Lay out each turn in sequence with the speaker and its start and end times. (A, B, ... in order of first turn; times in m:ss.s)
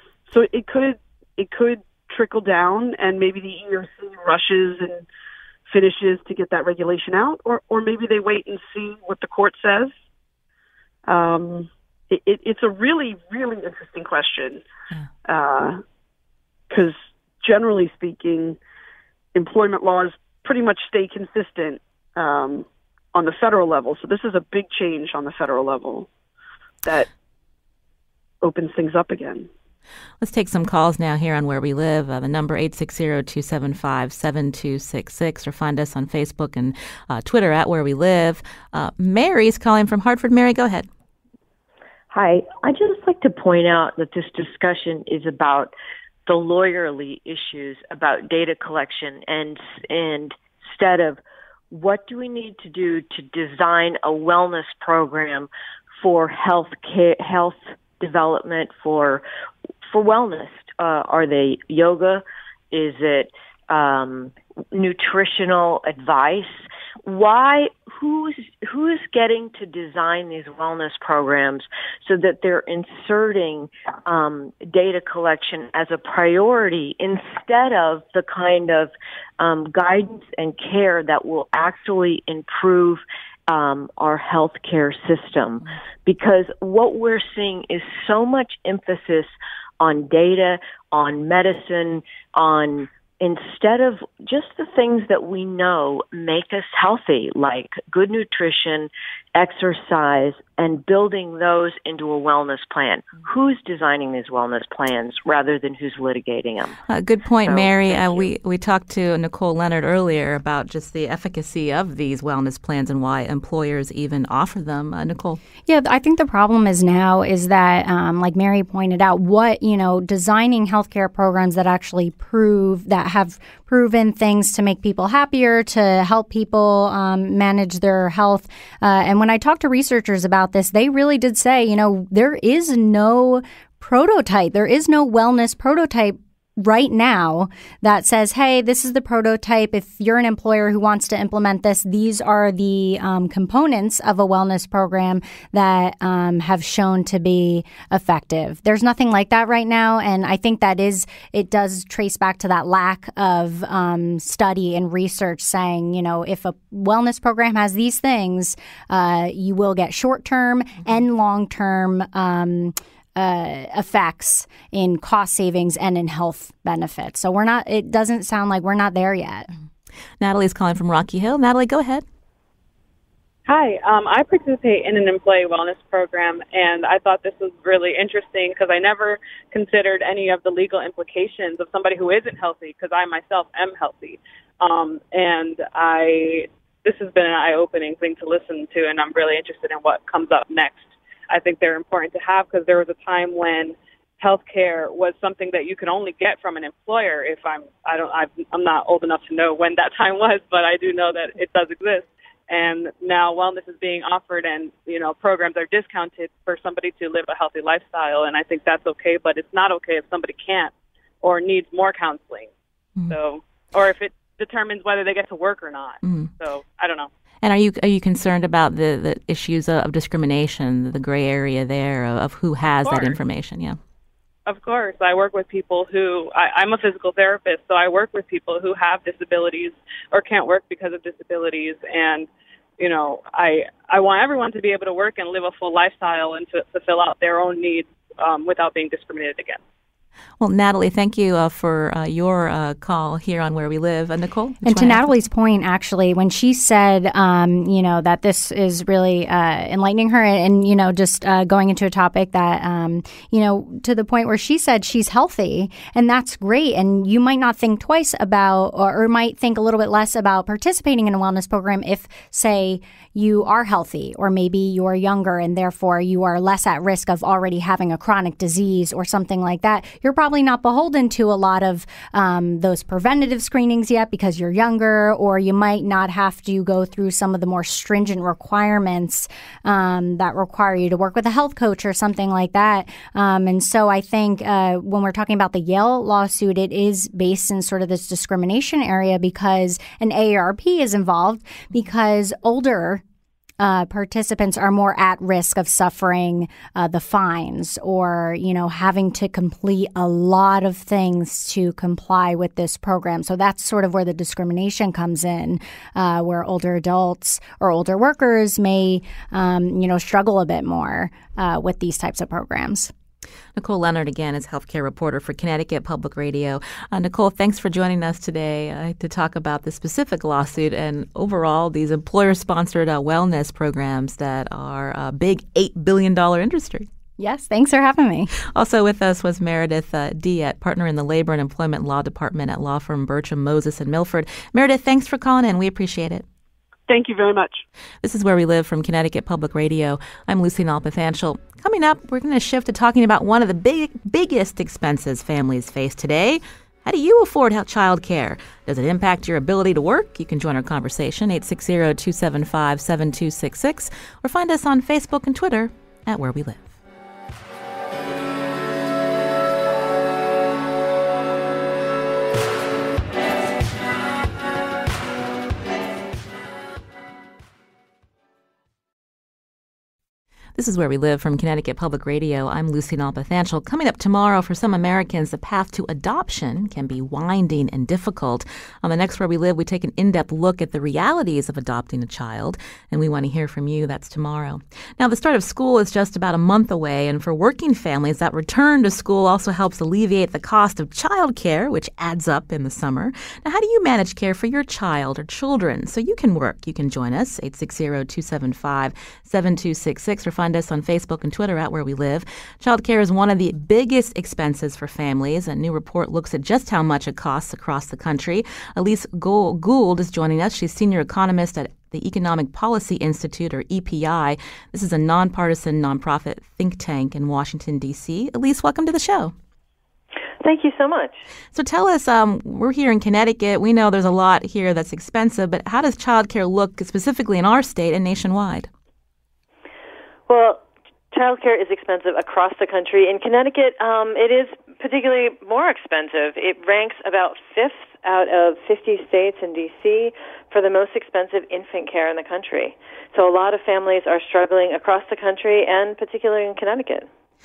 0:00.3-0:05.0 A
0:05.7-0:09.9 A
0:11.0-0:14.6 A
0:15.2-0:15.8 A
0:16.7-0:18.6 A
0:19.3-0:26.1 A
0:26.8-0:27.1 A
0:28.4-0:29.5 A
0:30.2-0:40.9 B
0:42.1-0:45.7 C
0:46.2-0:59.2 C
0:59.8-1:46.8 C
1:46.9-1:55.4 B
1:47.4-1:48.3 C
1:55.6-2:49.5 D
2:50.2-2:52.0 B
2:53.4-3:32.5 E
3:33.1-3:37.1 E
3:36.0-3:36.3 B
3:37.4-3:43.8 B
3:42.8-3:43.1 E
3:44.4-3:52.3 E
3:52.8-3:59.6 E
4:00.4-4:05.1 B
4:04.6-4:53.0 D
4:53.6-5:12.9 D
5:13.6-5:26.9 B
5:27.2-5:28.3 D
5:28.5-5:36.2 B
5:36.9-5:37.6 A
5:38.0-5:56.7 B
6:10.6-6:59.3 B
7:00.4-7:01.2 F
7:01.5-7:08.7 B
7:10.3-7:27.1 F